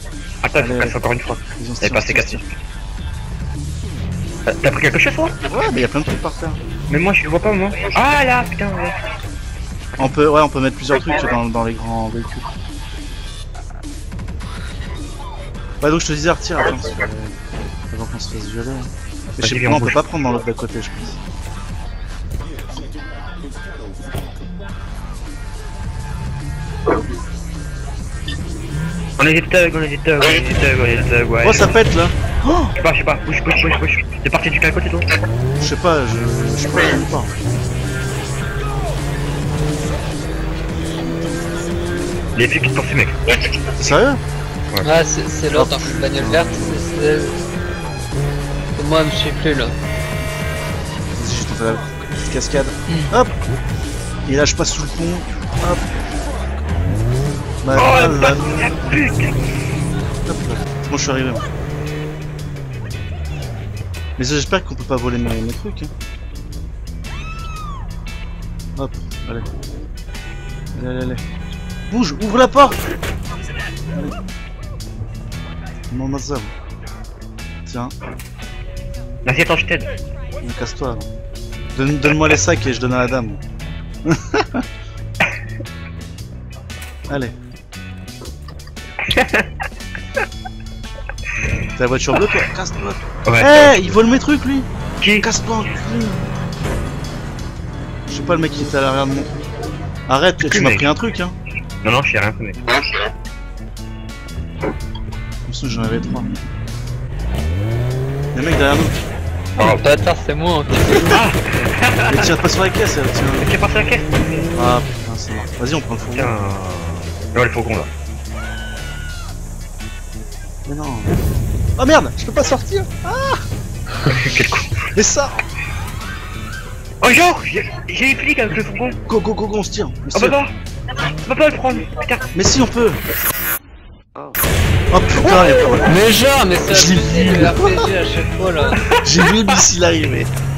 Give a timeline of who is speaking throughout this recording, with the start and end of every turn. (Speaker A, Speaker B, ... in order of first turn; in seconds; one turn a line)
Speaker A: 0.4-2.5
Speaker B: 0.6-1.0
Speaker B: 1.6-2.4
Speaker A: 4.5-5.4
Speaker B: 5.5-6.6
Speaker A: 6.9-9.0
Speaker B: 10.0-12.5
Speaker B: 15.8-17.4
Speaker B: 17.9-21.2
Speaker A: 19.4-20.0
Speaker A: 29.2-31.7
Speaker B: 31.4-32.7
Speaker A: 32.8-35.1
Speaker B: 35.6-37.4
Speaker B: 40.8-41.9
Speaker A: 42.3-43.2
Speaker B: 43.8-44.2
Speaker C: 44.8-47.3
Speaker B: 45.5-46.8
Speaker C: 48.8-49.7
Speaker B: 51.2-53.4
Speaker B: 54.2-56.3
Speaker B: 57.6-59.0
Speaker A: 57.7-59.4
Speaker B: 60.2-61.5
Speaker B: 64.2-65.9
Speaker B: 68.8-69.5
Speaker B: 70.7-71.2
Speaker B: 71.9-72.8
Speaker B: 75.9-76.5
Speaker B: 77.7-77.9
Speaker A: 79.2-79.9
Speaker B: 80.4-81.2
Speaker B: 81.7-83.4
Speaker B: 84.0-84.6
Speaker B: 87.1-87.3
Speaker A: 89.1-89.5
Speaker B: 91.8-94.7
Speaker A: 92.1-92.4
Speaker A: 93.2-94.0
Speaker A: 95.0-95.2
Speaker B: 95.2-96.3
Speaker B: 98.1-99.4
Speaker B: 100.1-101.3
Speaker A: 100.4-100.9
Speaker A: 101.8-102.6
Speaker B: 105.5-106.3
Speaker B: 108.3-109.0
Speaker A: 109.6-109.8
Speaker C: 109.6-111.1
Speaker A: 111.0-112.3
Speaker B: 112.1-113.5
Speaker A: 113.4-114.5
Speaker B: 114.5-116.3
Speaker A: 116.1-117.9
Speaker B: 120.7-121.2
Speaker B: 121.8-123.4
Speaker A: 124.0-124.9
Speaker B: 124.9-125.4
Speaker A: 127.0-129.0
Speaker B: 129.1-130.4
Speaker A: 130.1-130.5
Speaker A: 131.2-132.3
Speaker B: 132.3-133.0
Speaker B: 134.9-136.0
Speaker A: 135.3-135.7
Speaker C: 135.8-138.8
Speaker B: 136.7-137.9
Speaker A: 138.8-139.5
Speaker B: 139.0-140.3